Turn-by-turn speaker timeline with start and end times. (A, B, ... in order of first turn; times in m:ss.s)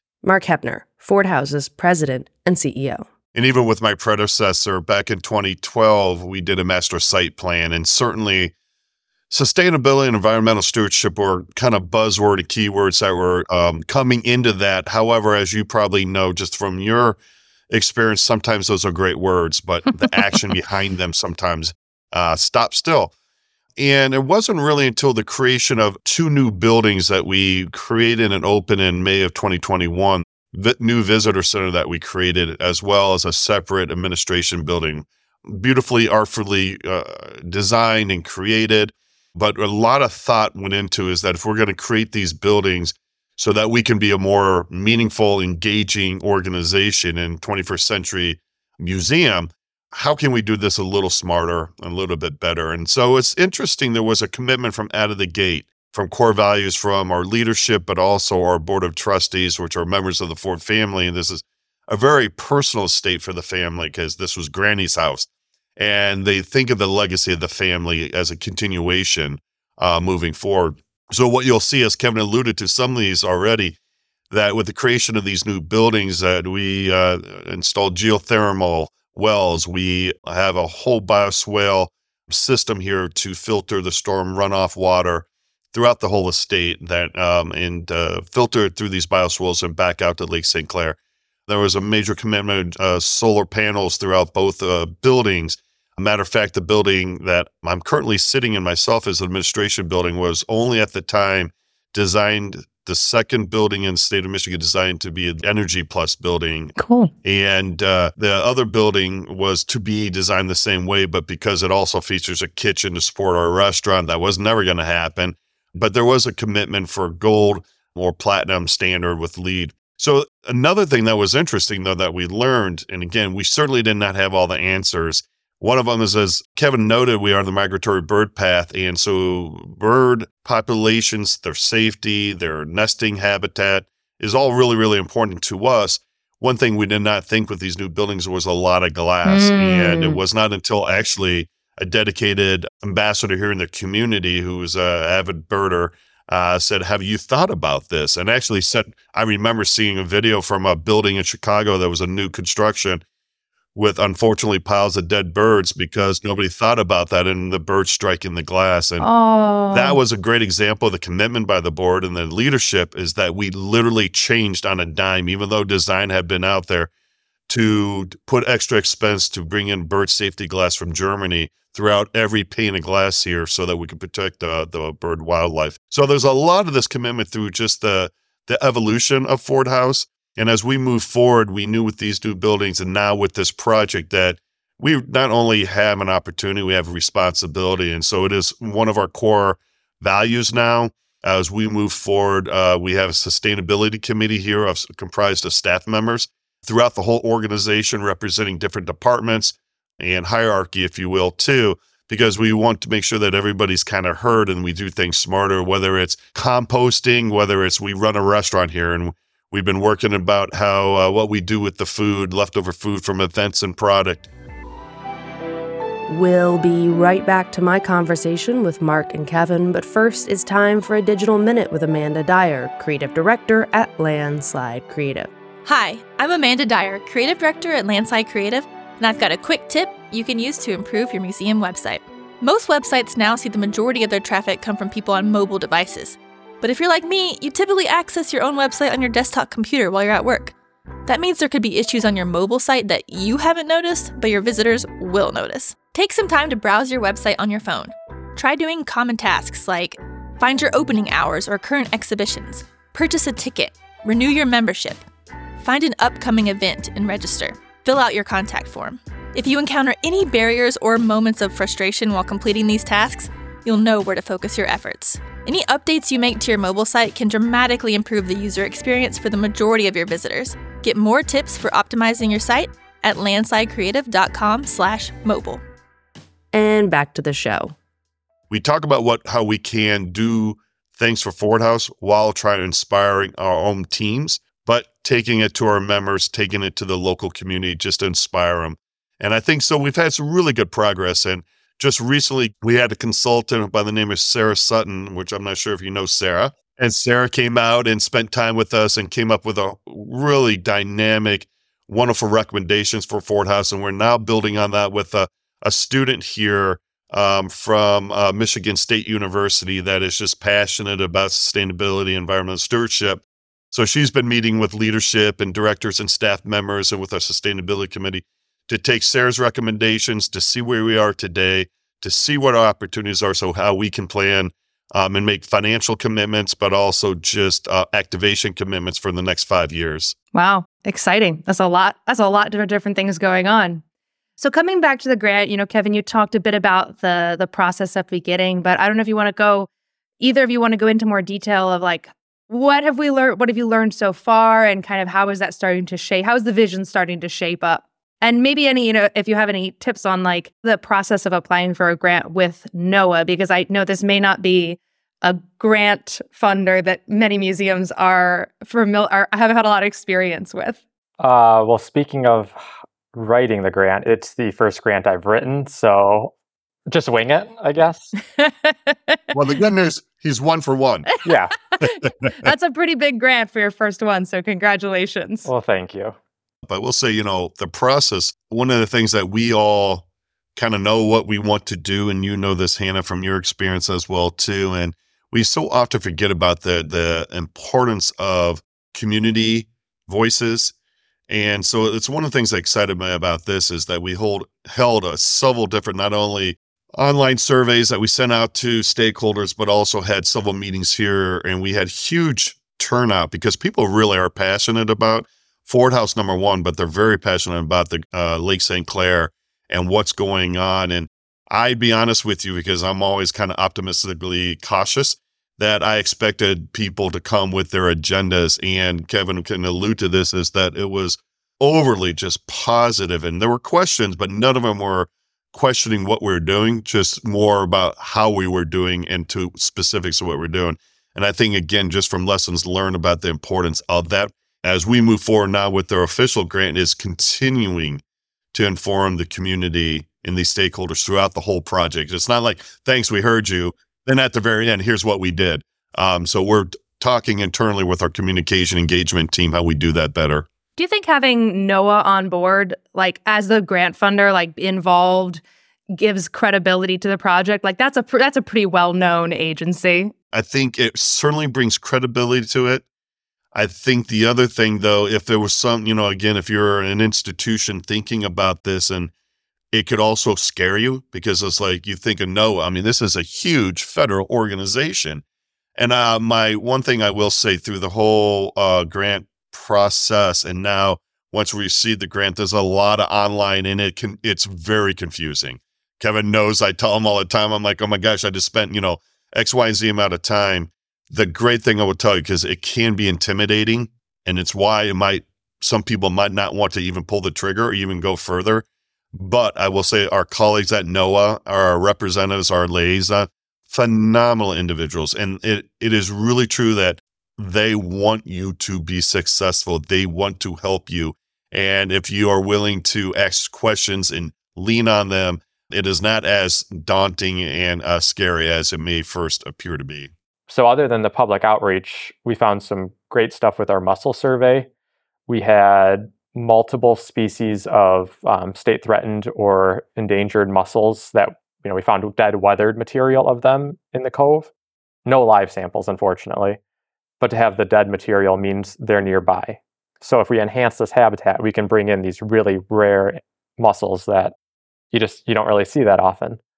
0:00.2-0:03.1 A
0:03.4-0:08.5 B
0:09.3-0:17.2 B
0:17.7-0:23.1 B
0:23.8-1:13.8 B
1:14.3-1:31.0 B
1:31.5-2:33.0 B
1:46.8-1:47.1 C
2:19.2-2:20.2 C
2:33.8-2:39.1 B
2:39.0-2:40.0 C
2:39.7-2:46.9 B
2:47.5-3:34.3 B
3:36.1-3:45.3 A
3:45.6-4:00.5 D
4:01.1-4:15.1 D
4:15.6-4:35.6 D
4:36.5-4:37.8 A
4:38.5-5:30.1 B
5:30.3-5:33.8 C
5:34.4-5:39.7 C
5:40.2-6:00.8 C
6:01.2-6:06.3 E
6:06.9-6:08.1 E
6:08.4-6:09.2 C
6:09.3-6:11.1 B
6:11.2-6:11.6 E
6:11.8-6:15.5 C
6:15.4-6:16.1 E
6:16.6-6:20.0 B
6:20.5-6:30.7 B
6:31.3-7:18.0 B
7:18.5-7:30.5 B
7:30.8-7:35.4 C
7:35.9-7:40.1 C
7:40.3-7:42.8 B
7:43.5-7:49.1 B
7:49.7-7:55.2 B
7:55.8-8:40.1 B
8:40.5-8:44.7 E
8:45.3-8:54.5 E
8:55.1-8:56.6 E
8:57.2-9:04.4 E
9:04.9-9:06.4 E